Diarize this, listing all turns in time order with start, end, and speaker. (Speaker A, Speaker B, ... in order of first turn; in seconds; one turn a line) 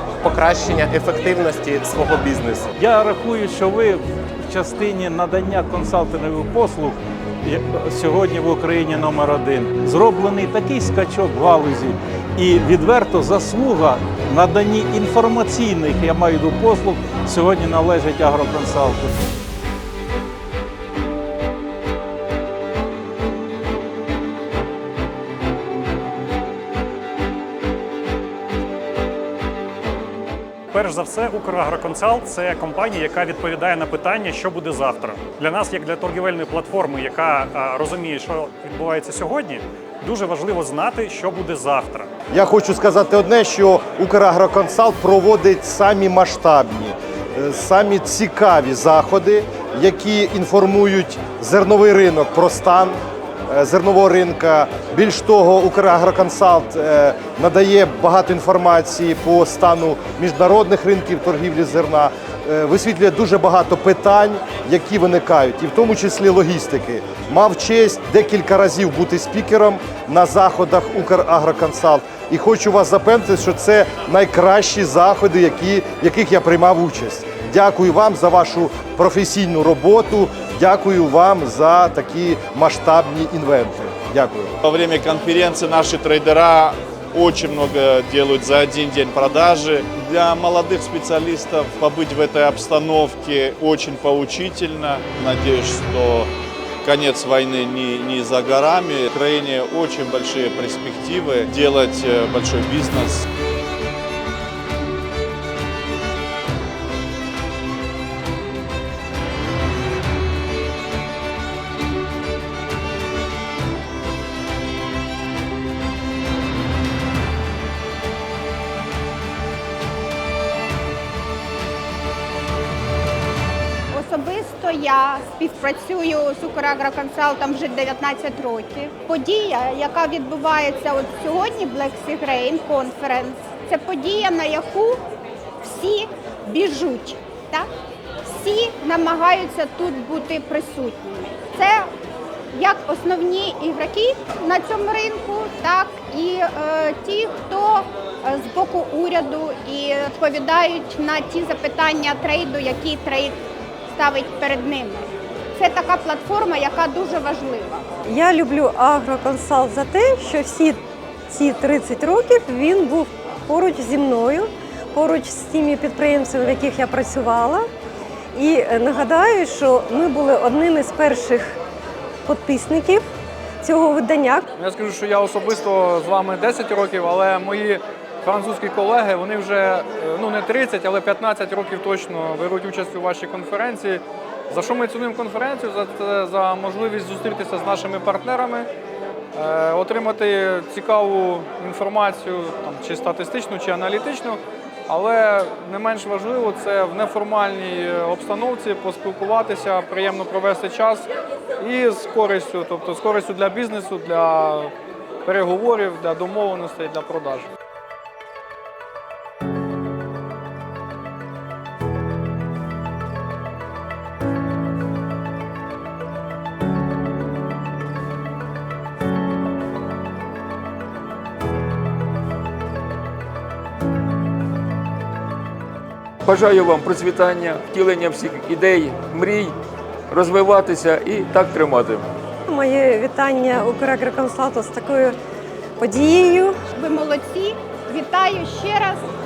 Speaker A: 0.2-2.7
Speaker B: 2.8-19.2
Speaker C: 30.7-42.1
Speaker D: 42.3-53.0
Speaker D: 53.5-84.5
Speaker E: 84.6-96.3
Speaker E: 96.8-103.2
Speaker F: 123.9-135.0
Speaker F: 135.6-137.7
Speaker F: 138.2-141.9
Speaker F: 142.5-153.3
Speaker F: 153.9-157.8
Speaker G: 158.1-167.7
Speaker G: 168.3-171.6
Speaker G: 172.2-173.1
Speaker G: 173.6-174.4
Speaker H: 174.6-188.7
Speaker H: 189.3-201.1
Speaker H: 201.6-204.7
Speaker H: 205.2-207.5
Speaker I: 226.2-229.6
Speaker I: 230.1-232.1
Speaker G: 232.5-235.2
Speaker G: 235.8-236.6
Speaker F: 236.7-239.0